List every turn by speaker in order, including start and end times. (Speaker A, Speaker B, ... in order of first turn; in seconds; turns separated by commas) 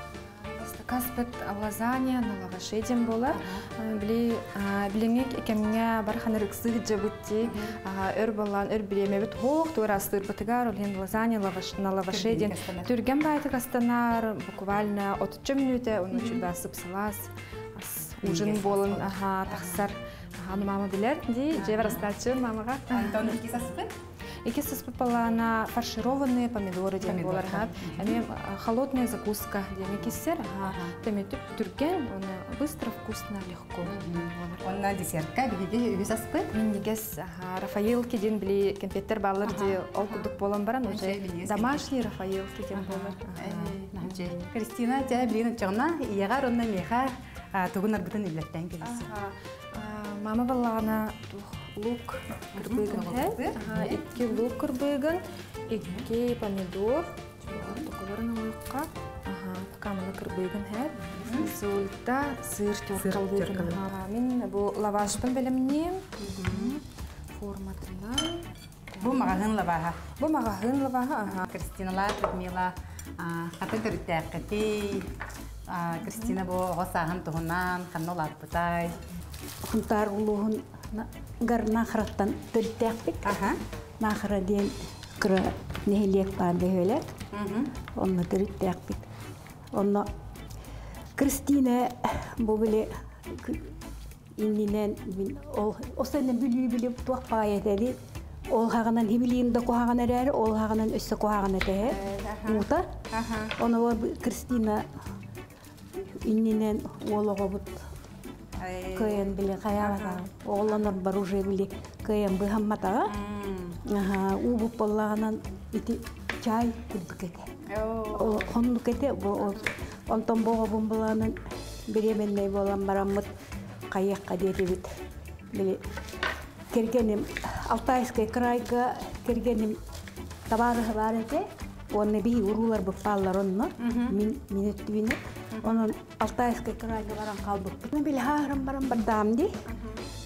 Speaker A: 0.2-23.4, Speaker B: 3.3-3.6, Speaker B: 7.4-7.7, Speaker B: 12.1-12.9, Speaker B: 16.1-16.4, Speaker B: 18.2-19.8, Speaker B: 21.6-22.1, Speaker B: 22.9-23.9, Speaker A: 24.4-34.6, Speaker B: 27.0-28.2, Speaker B: 30.6-31.0, Speaker B: 33.9-36.5, Speaker A: 36.5-44.5, Speaker B: 39.4-40.3, Speaker B: 40.9-41.9, Speaker B: 42.7-49.1, Speaker A: 48.8-69.4, Speaker B: 52.5-54.5, Speaker B: 61.1-61.5, Speaker B: 63.0-63.8, Speaker B: 66.2-66.8, Speaker B: 69.0-70.0, Speaker A: 70.2-71.5, Speaker B: 71.5-75.1, Speaker B: 75.7-79.0, Speaker C: 79.7-83.3, Speaker B: 83.2-83.6, Speaker C: 84.0-87.1, Speaker B: 87.3-87.7, Speaker C: 88.0-89.1, Speaker C: 89.7-90.1, Speaker C: 91.2-93.8, Speaker C: 94.4-98.0, Speaker C: 98.5-102.9, Speaker B: 101.8-103.5, Speaker C: 103.6-104.8, Speaker C: 106.0-107.8, Speaker B: 108.6-109.3, Speaker C: 108.9-113.1, Speaker B: 109.8-110.8, Speaker B: 113.1-113.8, Speaker C: 113.8-117.5, Speaker B: 117.7-118.5, Speaker C: 118.1-121.4, Speaker C: 121.9-123.3, Speaker C: 123.9-124.9, Speaker C: 125.5-125.8, Speaker C: 126.7-129.8, Speaker C: 130.5-139.5, Speaker B: 133.8-134.2, Speaker B: 135.5-135.9, Speaker B: 139.7-140.0